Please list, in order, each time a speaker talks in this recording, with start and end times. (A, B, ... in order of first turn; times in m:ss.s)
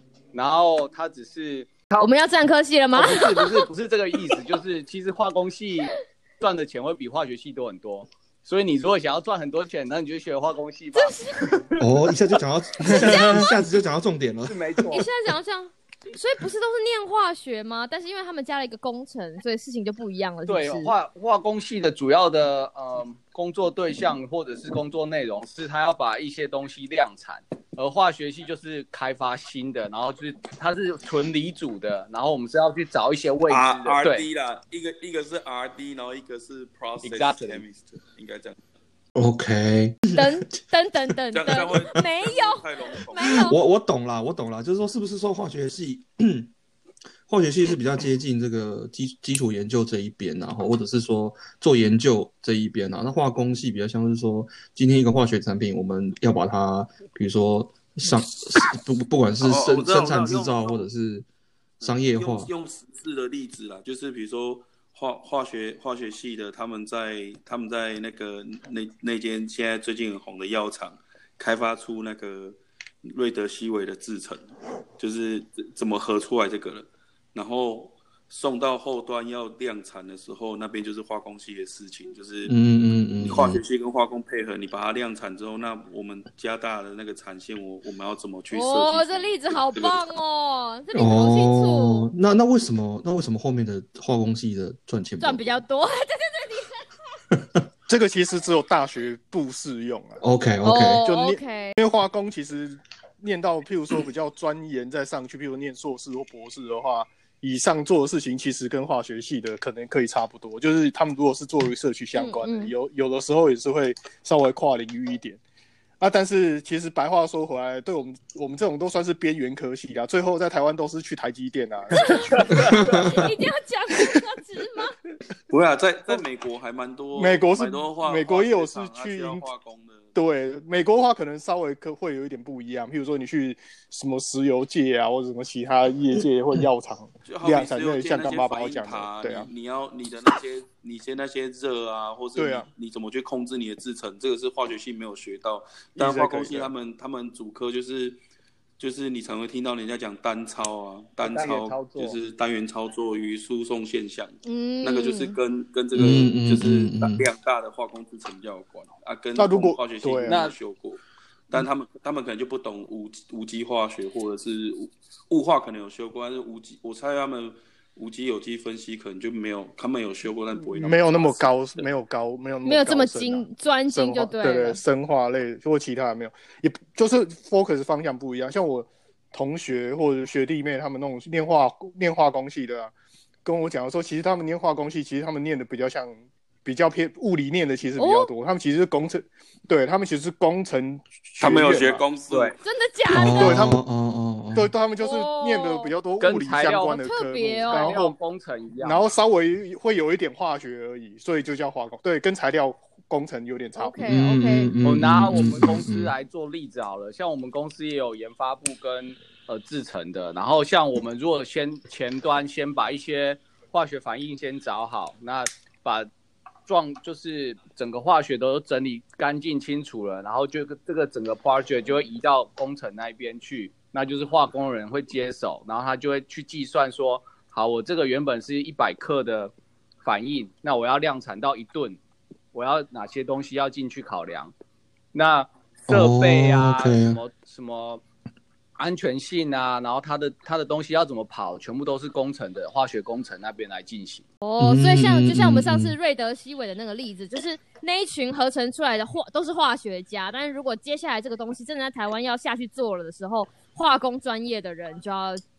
0:00.3-0:02.1 A
0:02.0-0:03.7 B
0:03.0-0:11.7 A
0:10.9-0:11.6 B
0:11.8-0:14.8 C
0:12.8-0:13.6 B
0:14.5-0:15.1 A
0:14.9-0:20.9 B
0:20.5-0:34.3 A
0:33.5-0:38.6 D
0:37.0-0:37.6 A
0:39.2-0:40.3 C
0:40.2-0:43.6 B
0:41.3-0:43.5 D
0:43.3-0:46.5 C
0:47.3-1:01.3 C
0:59.4-1:00.9 D
1:01.8-1:22.5 D
1:01.8-1:02.5 C
1:22.5-1:23.6 C
1:23.2-1:30.0 D
1:28.5-1:32.1 B
1:30.9-1:35.6 C
1:35.2-1:36.8 B
1:37.4-1:37.6 C
1:37.9-1:40.2 E
1:40.2-1:41.1 C
1:40.6-1:41.8 B
1:41.0-1:55.4 E
1:52.2-1:52.7 B
1:56.0-2:03.0 E
2:01.9-2:05.0 B
2:02.1-2:03.1 A
2:02.7-2:03.2 C
2:05.5-2:10.2 D
2:07.2-2:09.5 E
2:10.2-2:19.5 E
2:17.3-2:28.2 D
2:22.4-2:22.7 E
2:26.0-2:26.7 E
2:28.8-2:51.9 D
2:31.2-2:32.2 A
2:34.4-2:35.4 B
2:36.0-2:37.2 C
2:39.4-2:40.4 E
2:40.3-2:40.6 A
2:50.7-3:02.9 E
2:52.6-2:54.8 B
3:03.4-3:12.0 E
3:08.0-3:08.3 B
3:11.4-3:12.6 D
3:12.3-3:12.6 A
3:12.6-3:13.7 B
3:13.1-3:14.7 C
3:13.3-3:13.8 E
3:14.6-3:18.2 E
3:15.0-3:15.9 B
3:16.2-3:17.1 A
3:17.0-3:18.0 B
3:17.6-3:19.0 A
3:18.8-3:24.0 E
3:23.8-3:24.7 B
3:24.1-3:26.1 C
3:24.8-3:36.1 A
3:36.7-3:52.0 A
3:52.5-3:54.5 A
3:55.1-3:58.0 A
3:55.9-3:57.2 C
3:58.8-4:04.2 A
4:04.4-4:15.4 B
4:04.6-4:06.0 C